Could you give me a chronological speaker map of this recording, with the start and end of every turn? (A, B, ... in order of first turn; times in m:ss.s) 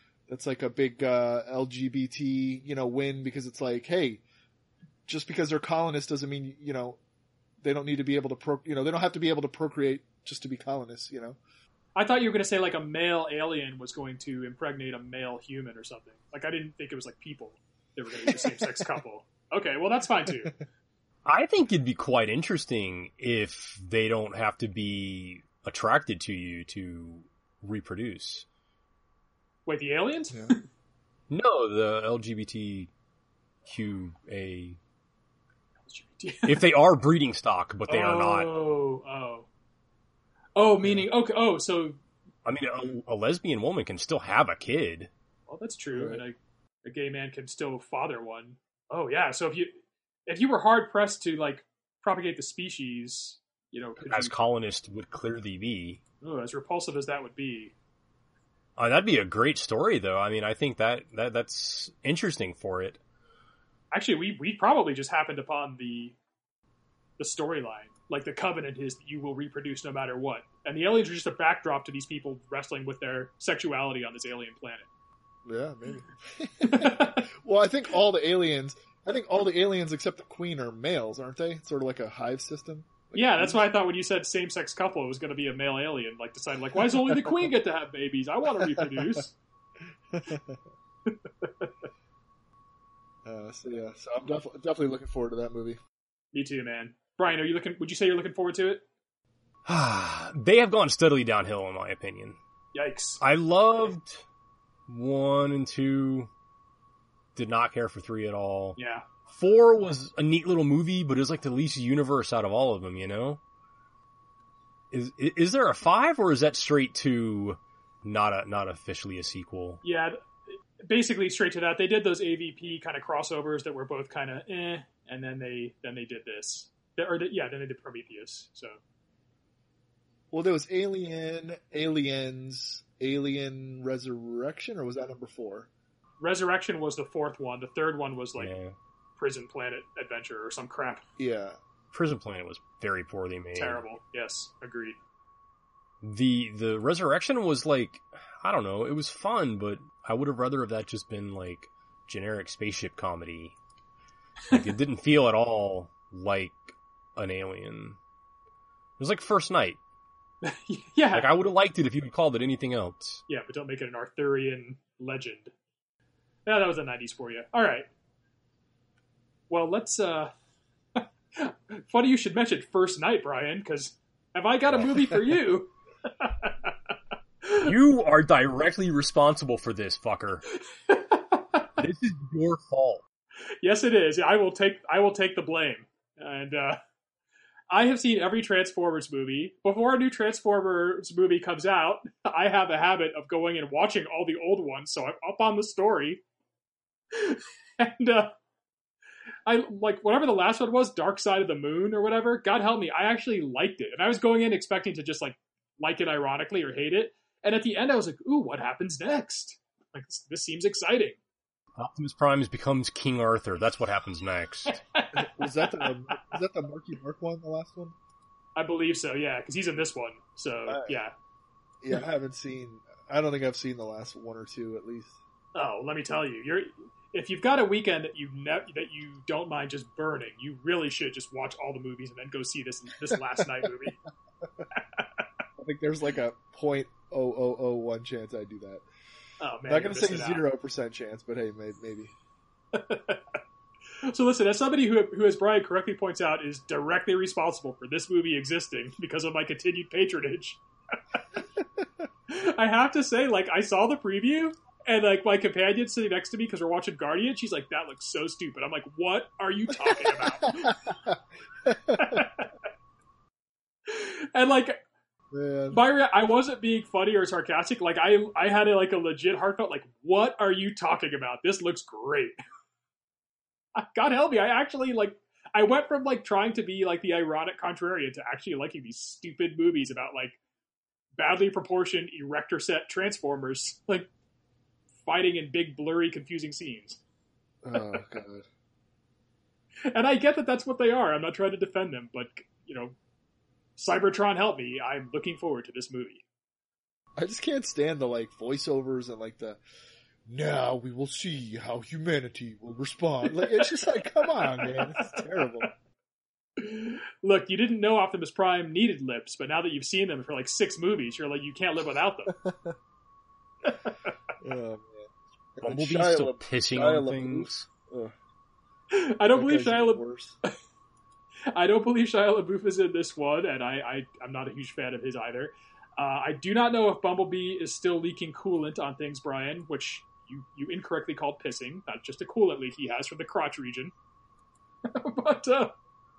0:00.3-0:04.2 A
0:05.1-0:07.0 A
0:07.6-0:11.4 A
0:11.9-0:20.6 B
0:18.2-0:18.7 A
0:21.2-0:28.4 C
0:29.6-0:30.6 B
0:31.3-0:32.9 C
0:33.6-0:34.8 C
0:35.8-0:36.6 B
0:36.4-0:38.5 C
0:37.9-0:39.5 B
0:40.6-0:42.0 B
0:42.4-0:45.1 C
0:45.5-0:49.7 B
0:45.9-0:46.2 A
0:50.3-0:54.3 B
0:54.0-0:56.0 C
0:56.2-0:57.7 B
0:58.8-1:03.0 C
1:03.9-1:06.2 B
1:07.2-1:14.8 B
1:15.4-1:23.6 A
1:16.6-1:17.3 B
1:23.1-1:29.3 B
1:27.0-1:27.4 A
1:28.6-1:29.2 A
1:30.1-1:30.6 A
1:31.1-1:31.7 B
1:33.2-1:35.8 A
1:36.3-1:38.8 B
1:39.6-1:42.4 C
1:42.7-1:43.2 B
1:43.2-1:44.2 C
1:44.9-1:46.3 C
1:47.4-1:48.8 C
1:48.8-1:49.0 B
1:49.3-1:53.4 C
1:54.9-1:59.8 C
1:59.8-2:00.2 B
2:00.8-2:08.8 B
2:10.3-2:15.7 A
2:16.2-2:18.5 B
2:18.4-2:18.7 C
2:19.2-2:21.0 B
2:21.2-2:21.6 A
2:21.9-2:23.8 C
2:23.5-2:25.0 B
2:26.0-2:33.5 C
2:34.5-2:38.0 C
2:39.0-2:39.8 C
2:40.4-2:41.3 B
2:41.1-2:43.2 C
2:43.3-2:45.5 B
2:46.4-2:47.9 B
2:49.5-2:50.3 B
2:51.0-2:56.7 B
2:57.4-2:57.7 B
2:57.6-3:00.4 C
3:00.7-3:01.7 B
3:01.8-3:03.0 C
3:03.6-3:06.8 B
3:07.7-3:16.2 B
3:17.1-3:18.4 B
3:19.4-3:31.2 B
3:31.8-3:34.8 C
3:34.7-3:36.4 B
3:35.1-3:37.9 A
3:38.6-3:41.1 B
3:40.7-3:41.0 A
3:41.8-3:45.2 A
3:45.5-3:54.0 B
3:54.7-3:55.2 B
3:55.6-3:58.8 A
3:59.4-4:00.4 B
3:59.7-4:02.1 A
4:02.7-4:03.4 B
4:04.0-4:10.6 B
4:12.3-4:20.9 B
4:19.9-4:22.2 A
4:21.9-4:22.5 B
4:23.9-4:24.8 B
4:25.3-4:25.8 A
4:25.7-4:32.4 B
4:33.8-4:40.4 B
4:41.2-4:44.1 B
4:45.0-4:47.0 B
4:47.6-4:48.4 A
4:49.9-4:53.0 B
4:53.8-4:56.2 B
4:57.2-4:59.6 A
5:00.2-5:05.7 A
5:03.2-5:05.6 B
5:06.6-5:12.4 B
5:12.3-5:12.7 A
5:13.6-5:14.1 B
5:14.4-5:18.1 A
5:15.6-5:17.7 C
5:18.9-5:20.5 B
5:19.3-5:20.3 A
5:21.5-5:33.9 B
5:34.8-5:35.7 B